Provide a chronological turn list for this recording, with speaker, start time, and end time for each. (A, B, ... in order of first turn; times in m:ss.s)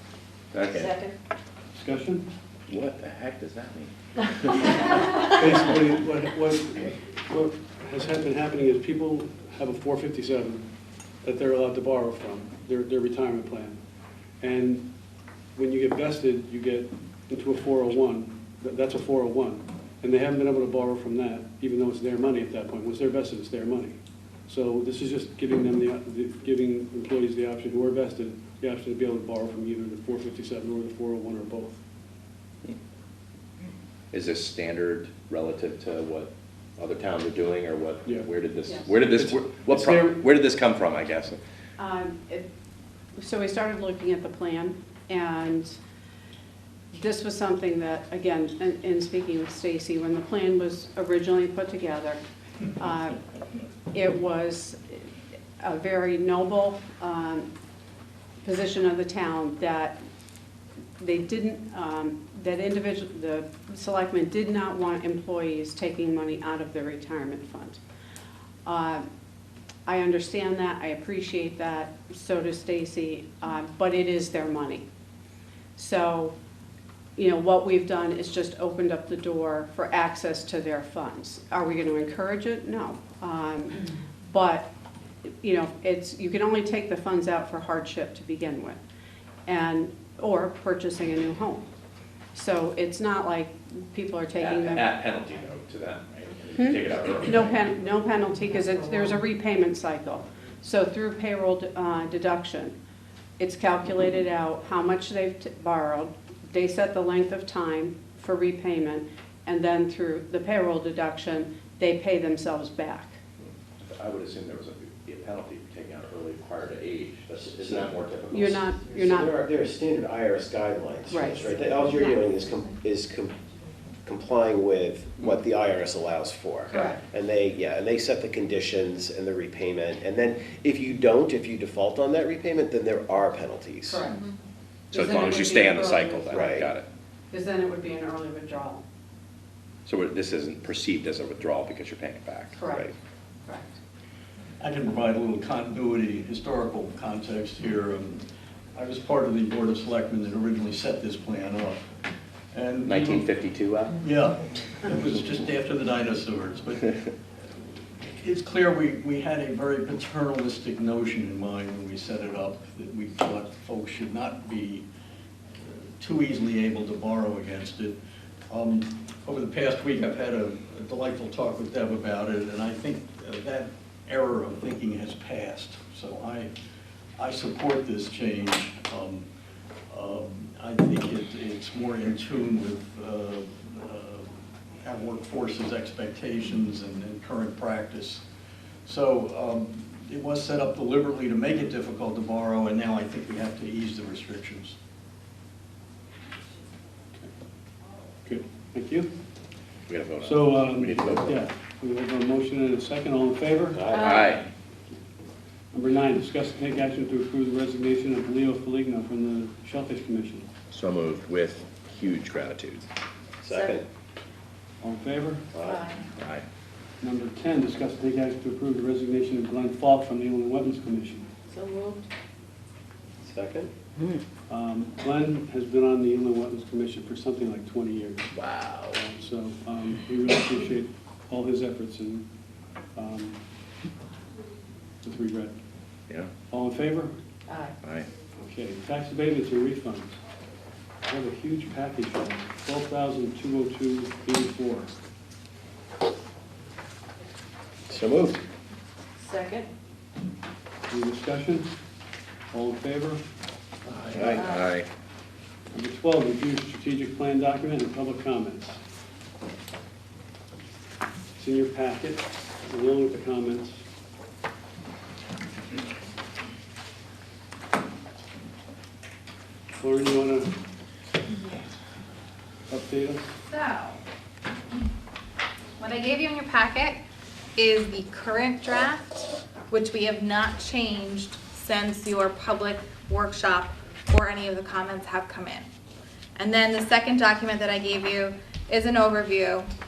0:00.5-0:01.0 A
0:00.7-0:01.1 B
0:01.7-0:02.3 C
0:02.7-0:05.3 A
0:05.2-0:10.7 C
0:11.2-0:13.8 C
0:14.4-0:14.9 C
0:15.5-0:24.0 C
0:24.5-0:31.8 C
0:34.1-0:41.4 A
0:39.0-0:40.2 C
0:41.8-0:42.5 D
0:43.2-0:45.7 D
0:46.9-0:52.2 D
0:52.8-0:53.2 D
0:53.9-0:55.0 D
0:55.6-0:57.5 D
0:58.4-1:00.0 D
1:01.0-1:07.8 D
1:08.6-1:09.0 D
1:09.8-1:14.8 D
1:15.8-1:16.3 D
1:17.2-1:24.7 D
1:25.2-1:28.8 D
1:29.4-1:31.6 D
1:32.3-1:34.9 D
1:34.4-1:37.6 A
1:36.5-1:42.7 D
1:43.4-1:53.2 D
1:53.8-1:58.7 A
1:57.3-1:57.9 E
1:58.3-1:59.3 D
1:58.9-2:03.4 E
2:01.1-2:02.2 D
2:04.0-2:14.0 E
2:06.7-2:07.0 D
2:13.9-2:14.2 D
2:14.0-2:14.3 F
2:14.9-2:16.8 A
2:14.9-2:16.7 D
2:16.3-2:16.7 E
2:17.3-2:18.8 D
2:19.8-2:22.9 A
2:22.5-2:22.9 D
2:23.4-2:23.7 D
2:24.6-2:31.9 G
2:32.5-2:33.3 G
2:32.8-2:34.0 A
2:34.0-2:37.0 G
2:38.1-2:44.8 G
2:46.0-2:48.0 G
2:48.5-2:56.5 G
2:57.2-2:59.3 G
2:59.9-3:08.2 G
3:08.8-3:14.8 G
3:18.2-3:19.1 C
3:19.9-3:21.4 A
3:20.2-3:23.8 C
3:23.7-3:24.2 E
3:23.9-3:24.4 B
3:23.9-3:24.5 A
3:25.7-3:30.5 C
3:30.7-3:32.8 A
3:33.4-3:33.8 E
3:34.8-3:35.5 C
3:35.5-3:35.9 E
3:36.2-3:36.4 A
3:37.0-3:41.3 C
3:41.5-3:42.1 B
3:43.2-3:43.7 E
3:44.5-3:48.3 C
3:48.9-3:52.3 C
3:53.0-3:53.4 C
3:55.0-3:55.5 C
3:56.5-3:57.1 C
3:57.5-3:57.7 B
3:57.8-3:58.1 A
3:58.4-4:00.2 C
4:01.0-4:04.9 C
4:07.9-4:08.4 E
4:09.2-4:09.7 B
4:10.9-4:11.7 C
4:12.5-4:13.2 C
4:13.9-4:14.4 C
4:14.1-4:14.9 A
4:14.3-4:14.6 B
4:15.7-4:18.8 C
4:21.4-4:23.8 C
4:29.8-4:30.5 C
4:32.7-4:33.3 C
4:33.5-4:34.0 F
4:35.8-4:37.0 F
4:37.6-4:45.7 F
4:46.4-4:49.7 F